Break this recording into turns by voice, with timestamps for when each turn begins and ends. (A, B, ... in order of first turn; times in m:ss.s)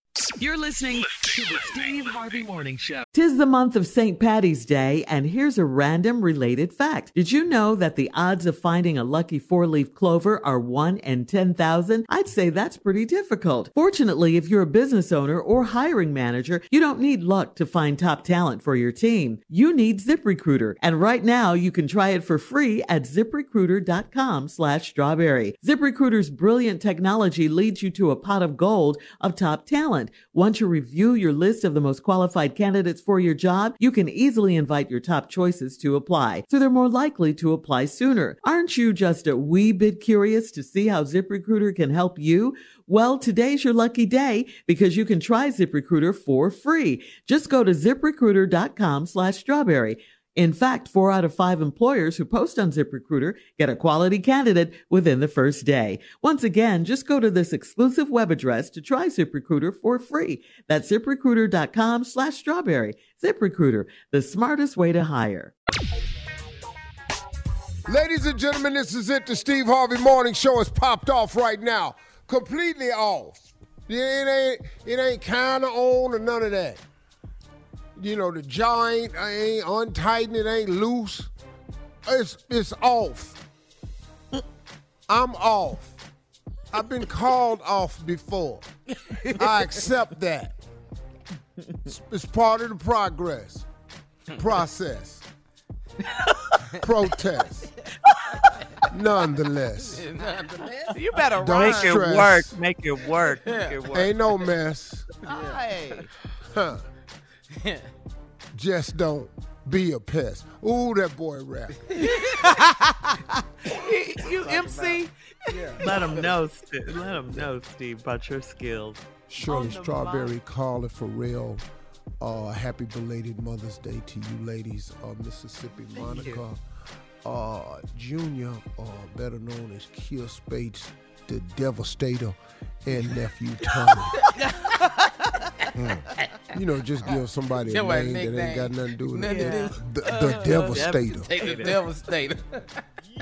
0:00.4-0:01.1 A
0:01.0-0:03.0 B
0:03.1-1:05.5 A
1:07.8-1:16.8 C
1:18.0-1:21.3 C
1:22.0-1:23.4 C
1:25.1-1:26.0 C
1:26.7-1:28.6 C
1:29.4-1:30.5 C
1:31.9-1:33.7 C
1:34.3-1:35.2 C
1:36.1-1:36.5 A
1:36.8-1:37.7 C
1:38.0-1:38.5 A
1:38.9-1:40.0 C
1:39.8-1:41.0 D
1:40.9-1:42.1 E
1:41.4-1:42.5 C
1:41.5-1:44.2 A
1:43.2-1:43.9 D
1:43.9-1:45.0 C
1:45.3-1:46.1 E
1:45.3-1:45.6 D
1:46.4-1:46.8 C
1:47.5-1:47.9 D
1:48.5-1:52.0 C
1:51.9-1:52.4 D
1:52.4-1:55.8 E
1:54.2-1:56.4 D
1:55.8-2:00.3 A
1:59.3-2:01.6 C
2:02.2-2:06.6 C
2:05.9-2:06.4 A
2:07.2-2:14.2 C
2:14.4-2:15.3 E
2:16.5-2:21.3 C
2:17.1-2:22.8 D
2:19.2-2:19.8 A
2:20.3-2:21.8 A